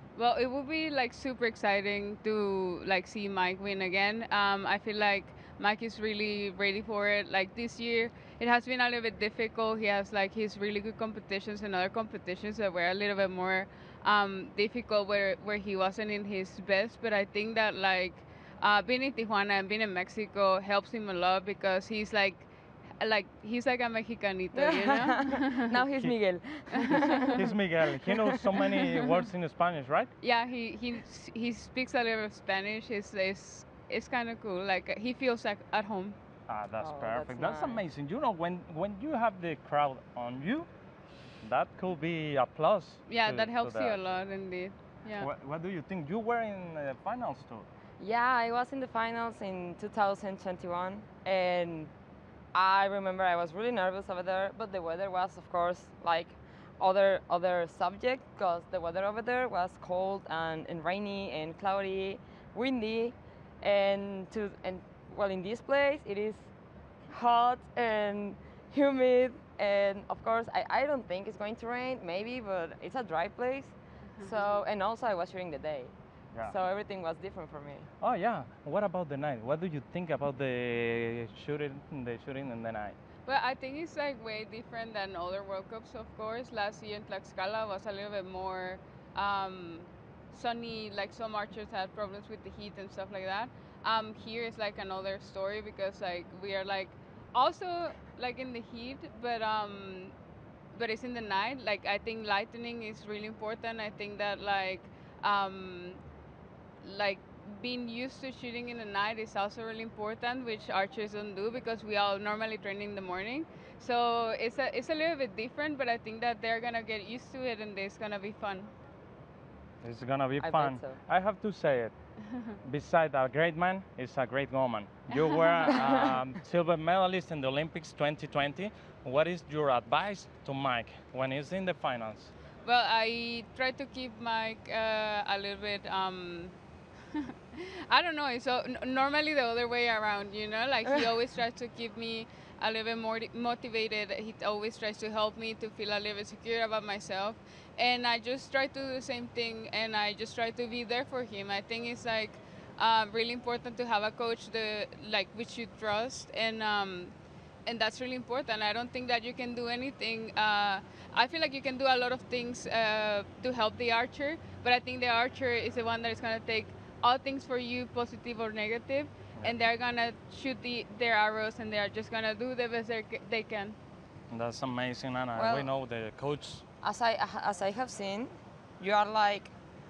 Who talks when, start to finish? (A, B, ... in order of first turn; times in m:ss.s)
0:00.2-0:22.5 A
0:23.0-0:25.7 A
0:24.5-0:27.5 B
0:26.8-0:27.4 A
0:27.3-0:30.1 C
0:28.0-0:28.7 B
0:30.2-0:36.2 A
0:36.5-0:40.7 C
0:36.8-0:37.8 B
0:41.4-0:44.0 C
0:43.1-0:45.3 A
0:45.2-0:47.7 C
0:48.0-0:51.9 B
0:52.5-1:06.4 B
1:07.1-1:15.9 B
1:14.2-1:14.6 A
1:16.5-1:17.9 B
1:18.0-1:23.0 C
1:23.3-1:40.2 A
1:40.7-1:46.0 A
1:46.8-1:58.7 A
1:59.8-2:01.9 C
2:00.4-2:01.0 B
2:02.6-2:12.3 C
2:05.2-2:05.8 A
2:12.6-2:16.6 A
2:17.1-2:37.1 A
2:37.7-2:53.8 A
2:54.3-2:56.6 C
2:55.4-2:55.7 B
2:56.8-2:59.5 B